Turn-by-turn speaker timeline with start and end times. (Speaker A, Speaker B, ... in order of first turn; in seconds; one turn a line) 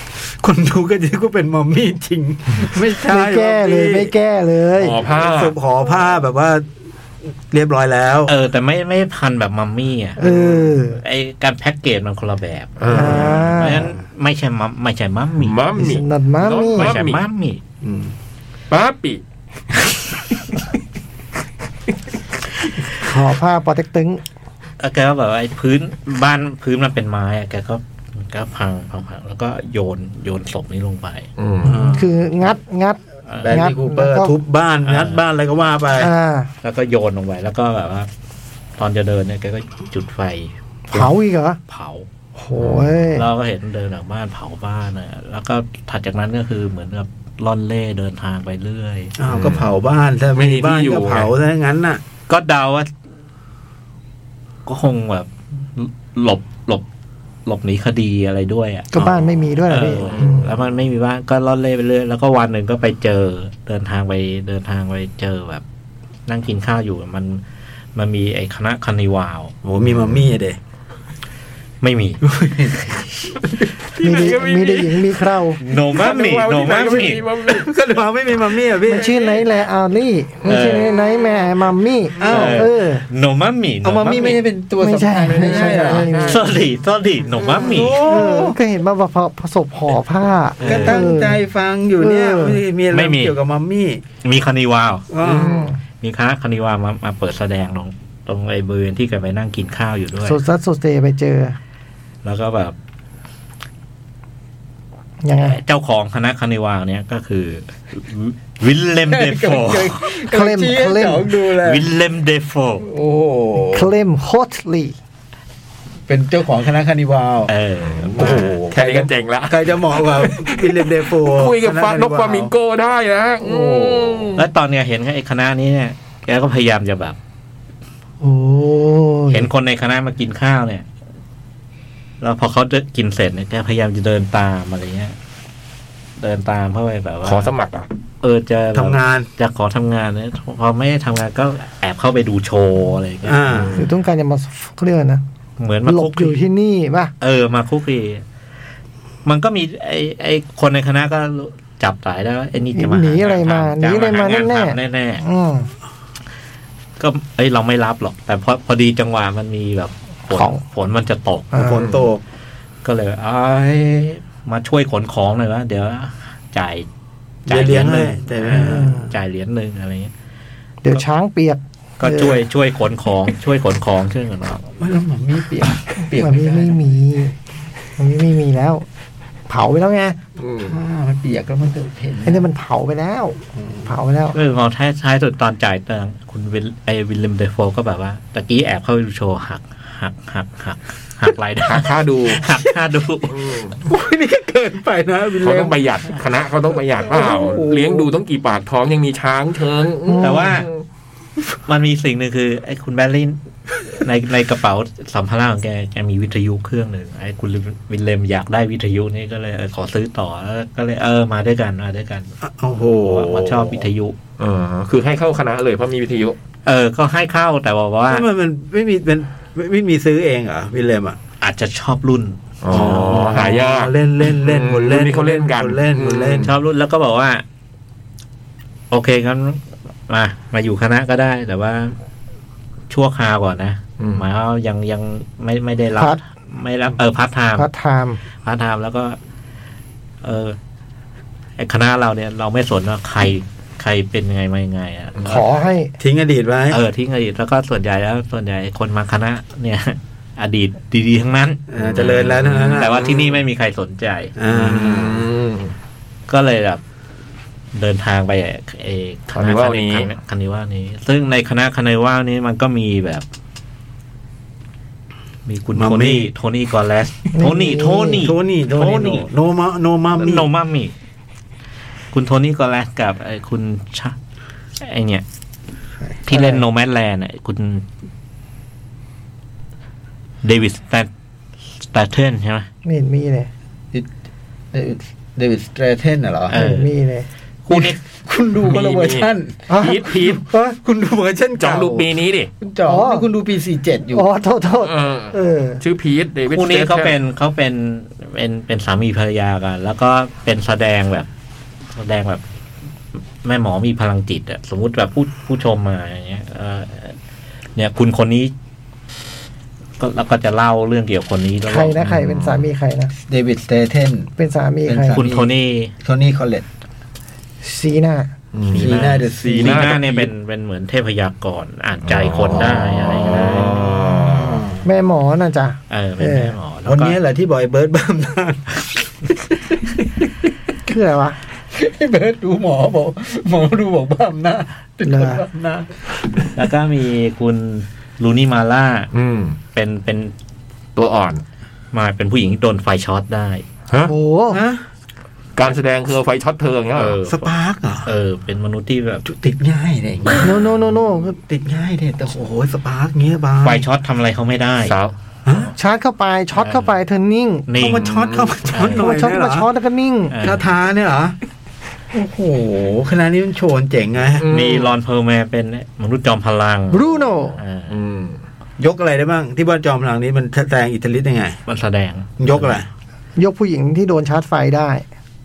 Speaker A: 0.4-4.1
Speaker B: 3.0-5.0
Speaker C: 4.8-5.5
Speaker A: 5.1-6.7
Speaker A: 7.5-8.3
Speaker D: 8.3-10.2
Speaker B: 10.2-11.0
Speaker C: 10.2-10.6
Speaker D: 10.9-15.6
Speaker C: 12.8-13.5
Speaker B: 12.9-13.9
Speaker C: 15.4-17.2
Speaker B: 15.8-16.9
Speaker D: 16.8-17.6
Speaker A: 17.8-18.1
Speaker C: 18.7-19.2
Speaker B: 22.9-24.2
Speaker D: 24.8-32.0
Speaker C: 31.4-31.8
Speaker A: 31.6-32.0
Speaker B: 31.9-34.4
Speaker D: 33.3-33.6
Speaker A: 33.4-36.1
Speaker D: 34.8-35.2
Speaker B: 36.0-36.5
Speaker D: 36.6-38.1
Speaker D: 38.8-41.1
Speaker B: 40.9-41.6
Speaker D: 41.7-42.1
Speaker B: 42.4-43.2
Speaker C: 42.6-42.9
Speaker D: 43.0-49.1
Speaker A: 49.2-52.0
Speaker C: 49.2-49.7
Speaker C: 50.3-51.3
Speaker D: 52.3-52.9
Speaker D: 54.6-56.8
Speaker D: 57.5-65.6
Speaker B: 58.9-60.5
Speaker D: 66.3-67.4
Speaker D: 67.9-69.5
Speaker A: 69.6-70.6
Speaker D: 71.8-73.3
Speaker A: 72.2-72.8
Speaker C: 73.8-77.7
Speaker B: 74.0-75.6
Speaker D: 75.6-77.2
Speaker A: 77.4-79.3
Speaker B: 78.8-83.0
Speaker D: 80.4-80.9
Speaker C: 80.5-81.3
Speaker A: 82.2-82.7
Speaker D: 82.2-84.4
Speaker A: 83.8-86.2
Speaker B: 84.8-86.6
Speaker C: 85.2-86.5
Speaker D: 86.2-88.0
Speaker A: 87.4-88.6
Speaker B: 87.8-91.4
Speaker D: 90.6-91.0
Speaker A: 90.6-94.0
Speaker B: 92.0-92.6
Speaker D: 92.9-93.3
Speaker D: 94.2-95.1
Speaker A: 95.1-95.7
Speaker C: 95.2-95.7
Speaker B: 95.5-95.7
Speaker D: 96.0-100.4
Speaker B: 100.2-101.6
Speaker D: 102.2-102.7
Speaker B: 105.2-105.6
Speaker D: 105.4-110.1
Speaker A: 109.1-111.9
Speaker B: 110.2-111.3
Speaker D: 111.6-112.9
Speaker A: 112.8-113.9
Speaker B: 113.7-115.0
Speaker A: 116.1-117.5
Speaker D: 117.5-118.6
Speaker C: 118.0-124.5
Speaker A: 118.2-122.5
Speaker A: 123.4-124.3
Speaker D: 124.3-127.2
Speaker B: 128.2-129.5
Speaker D: 129.3-130.8
Speaker D: 132.2-135.2
Speaker D: 136.2-137.5
Speaker C: 137.2-137.9
Speaker D: 138.2-143.8
Speaker A: 138.7-139.3
Speaker A: 143.2-143.8
Speaker C: 143.5-143.7
Speaker B: 143.7-145.2
Speaker D: 145.6-146.4
Speaker B: 145.8-147.1
Speaker D: 147.2-148.2
Speaker D: 149.2-155.2
Speaker B: 152.7-155.7
Speaker D: 157.0-161.8
Speaker B: 160.3-160.7
Speaker B: 161.5-161.8
Speaker A: 161.5-162.2
Speaker C: 161.8-162.1
Speaker D: 162.8-166.9
Speaker D: 167.4-170.1
Speaker A: 167.5-169.1
Speaker B: 168.5-169.1
Speaker B: 170.8-172.4
Speaker D: 172.0-174.7
Speaker A: 174.8-176.9
Speaker B: 176.1-177.3
Speaker B: 178.0-178.8
Speaker B: 179.5-180.2
Speaker C: 180.4-180.8
Speaker A: 180.6-182.5
Speaker B: 182.2-184.4
Speaker A: 183.5-183.9
Speaker D: 184.3-193.6
Speaker C: 191.7-192.4
Speaker C: 193.3-193.8
Speaker A: 193.8-195.8
Speaker C: 195.4-200.8
Speaker A: 197.0-198.1
Speaker B: 200.1-200.6
Speaker D: 200.2-200.7
Speaker D: 201.7-212.3
Speaker A: 212.4-213.8
Speaker D: 213.0-214.2
Speaker C: 214.4-216.3
Speaker D: 216.7-218.2
Speaker A: 218.1-221.2
Speaker D: 221.4-223.2
Speaker C: 222.6-226.5
Speaker A: 222.7-226.5
Speaker D: 226.4-227.4
Speaker D: 228.9-231.9
Speaker D: 232.9-237.7
Speaker C: 234.0-234.2
Speaker B: 237.6-238.2
Speaker D: 238.4-239.2
Speaker D: 240.2-240.6
Speaker D: 241.6-245.4
Speaker C: 245.2-245.4
Speaker B: 245.2-245.9
Speaker A: 246.0-246.8
Speaker D: 246.7-251.6
Speaker A: 251.7-253.3
Speaker C: 251.8-253.0
Speaker D: 252.7-254.3
Speaker A: 254.3-255.3
Speaker C: 254.5-255.7
Speaker D: 256.3-256.8
Speaker D: 257.7-263.2
Speaker C: 259.3-260.1
Speaker D: 265.5-269.3
Speaker A: 265.8-266.3
Speaker B: 267.3-268.2
Speaker A: 268.1-270.5
Speaker D: 270.2-270.9
Speaker D: 272.1-274.1
Speaker D: 274.8-275.2
Speaker D: 276.3-277.9
Speaker D: 280.4-281.1
Speaker D: 281.9-282.7
Speaker B: 282.8-283.5
Speaker A: 284.7-286.6
Speaker D: 286.5-286.9
Speaker B: 286.5-287.3
Speaker D: 287.6-288.0
Speaker A: 287.7-292.1
Speaker C: 288.6-290.4
Speaker B: 289.7-290.8
Speaker C: 291.6-292.5
Speaker A: 292.6-294.2
Speaker B: 292.8-293.3
Speaker B: 294.1-295.8
Speaker C: 294.8-297.1
Speaker D: 296.5-301.3
Speaker D: 301.9-302.4
Speaker D: 303.4-307.1
Speaker D: 307.8-308.5
Speaker D: 310.0-312.0
Speaker B: 311.6-313.1
Speaker C: 312.0-312.7
Speaker A: 313.2-314.3
Speaker B: 314.4-315.2
Speaker A: 314.9-316.6
Speaker D: 315.1-315.9
Speaker B: 317.6-318.3
Speaker C: 318.5-320.3
Speaker D: 318.7-324.0
Speaker A: 318.7-319.9
Speaker C: 322.1-324.7
Speaker A: 323.8-324.8
Speaker B: 324.8-326.6
Speaker D: 325.9-327.2
Speaker A: 326.8-330.1
Speaker B: 330.9-331.4
Speaker A: 331.7-335.9
Speaker B: 335.0-335.4
Speaker D: 336.5-339.1
Speaker C: 339.1-339.6
Speaker D: 339.7-340.3
Speaker C: 340.9-341.4
Speaker D: 341.9-343.6
Speaker C: 343.9-344.1
Speaker B: 344.1-344.6
Speaker A: 344.5-344.8
Speaker C: 345.6-347.2
Speaker D: 346.9-347.5
Speaker A: 347.2-348.1
Speaker D: 348.0-349.2
Speaker A: 349.2-350.6
Speaker B: 350.4-351.4
Speaker A: 351.4-353.8
Speaker D: 353.6-354.9
Speaker C: 354.9-355.1
Speaker A: 355.4-355.7
Speaker B: 355.7-357.7
Speaker D: 356.6-356.9
Speaker D: 357.7-358.1
Speaker A: 357.8-359.7
Speaker C: 357.8-358.6
Speaker D: 358.7-359.1
Speaker B: 358.9-360.4
Speaker D: 360.3-360.6
Speaker A: 360.4-361.4
Speaker A: 362.1-364.4
Speaker C: 364.4-364.9
Speaker D: 364.5-368.0
Speaker B: 366.9-367.6
Speaker C: 367.9-368.4
Speaker A: 368.8-371.6
Speaker D: 371.7-372.8
Speaker A: 372.4-372.9
Speaker B: 373.4-375.0